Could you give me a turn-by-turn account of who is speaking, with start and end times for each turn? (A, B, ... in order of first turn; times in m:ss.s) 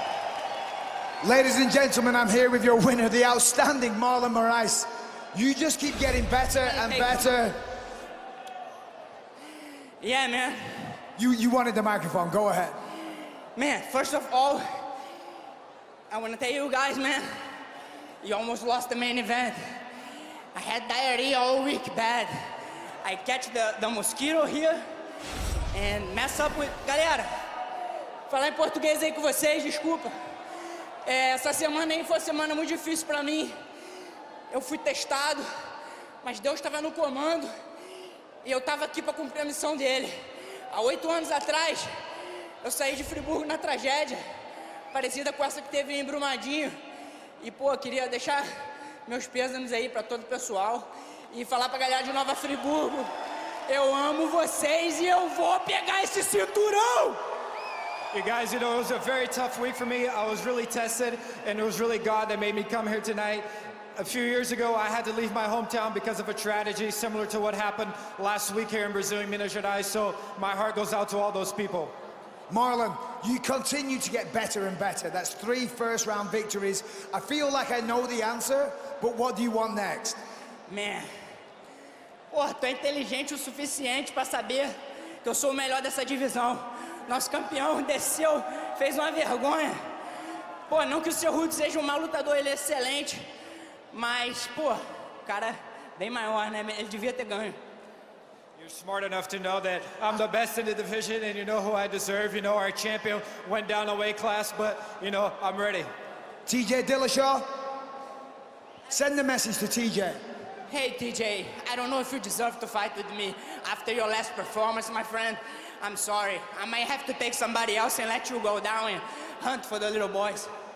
0:01.2-0:07.6 A
0:06.6-0:07.2 B
0:10.0-0:10.9 B
0:11.2-0:12.8 A
0:13.5-0:14.6 B
0:16.1-0:17.3 B
0:18.2-0:19.6 B
0:20.5-0:22.3 B
0:23.0-0:24.8 B
0:25.7-0:27.3 B
0:28.3-0:30.1 B
0:31.0-0:33.5 B
0:34.5-0:35.4 B
0:36.2-0:37.5 B
0:38.4-0:40.1 B
0:40.7-0:41.9 B
0:42.6-0:44.2 B
0:44.9-0:46.7 B
0:47.4-0:48.4 B
0:49.0-0:53.1 B
0:53.7-0:57.2 B
0:58.1-1:11.9 C
1:12.5-1:20.2 A
1:20.7-1:21.1 B
1:22.3-1:29.8 B
1:30.7-1:33.2 B
1:33.9-1:37.6 B
1:38.6-1:45.9 C
1:46.4-1:47.4 A
1:48.9-1:50.2 A
1:50.7-2:00.5 B